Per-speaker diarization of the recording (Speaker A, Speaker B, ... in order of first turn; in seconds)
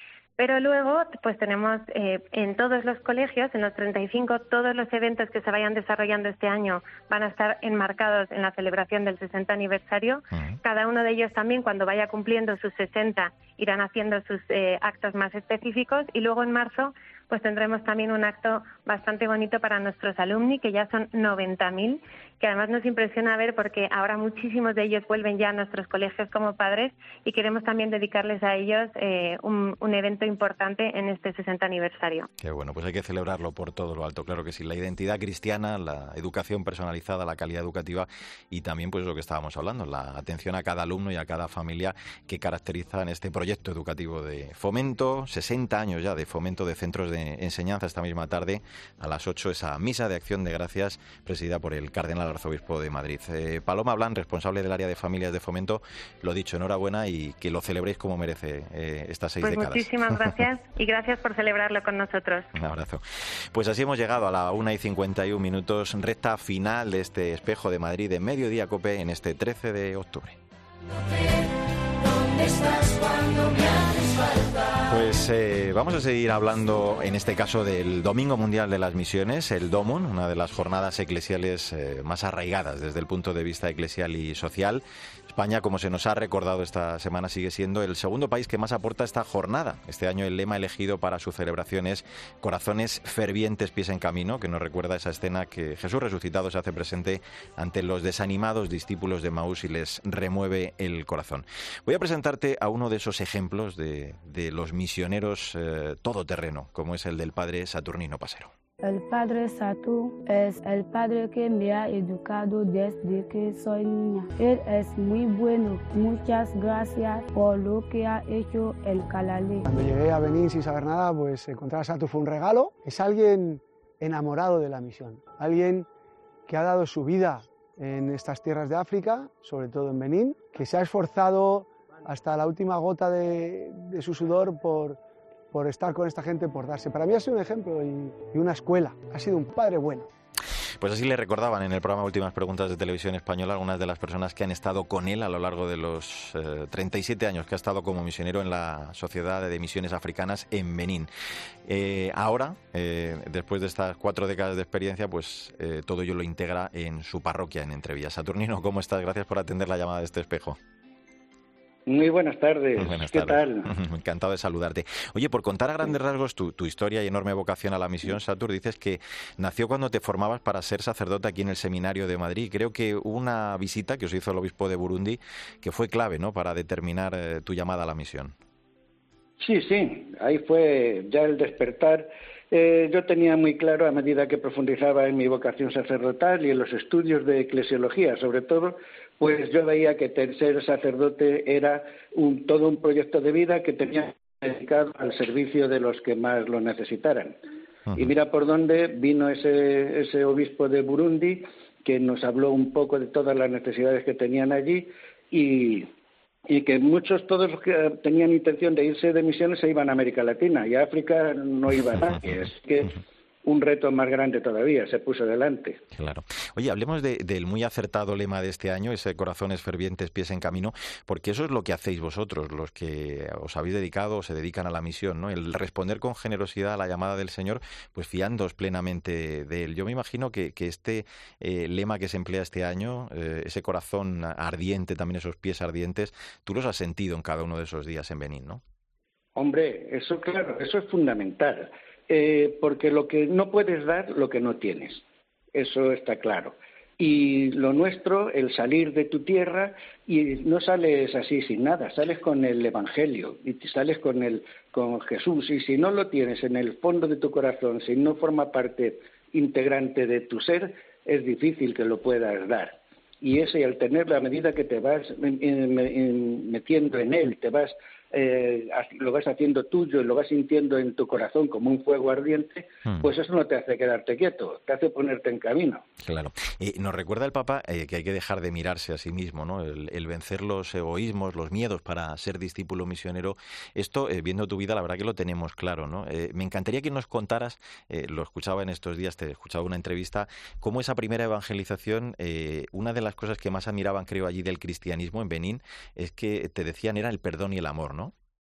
Speaker A: 0.4-32.3, 59.4-62.5
Speaker B: 10.3-10.6, 32.4-60.3, 62.5-70.4, 74.9-108.5, 140.8-151.1, 151.7-160.6, 162.8-178.3, 215.9-238.6, 276.0-298.1
Speaker C: 108.8-119.7
Speaker D: 119.7-125.9, 126.5-135.0, 135.5-140.1
Speaker E: 161.9-163.7, 179.4-197.4, 197.9-205.9, 206.5-215.8, 239.3-245.0, 245.5-275.8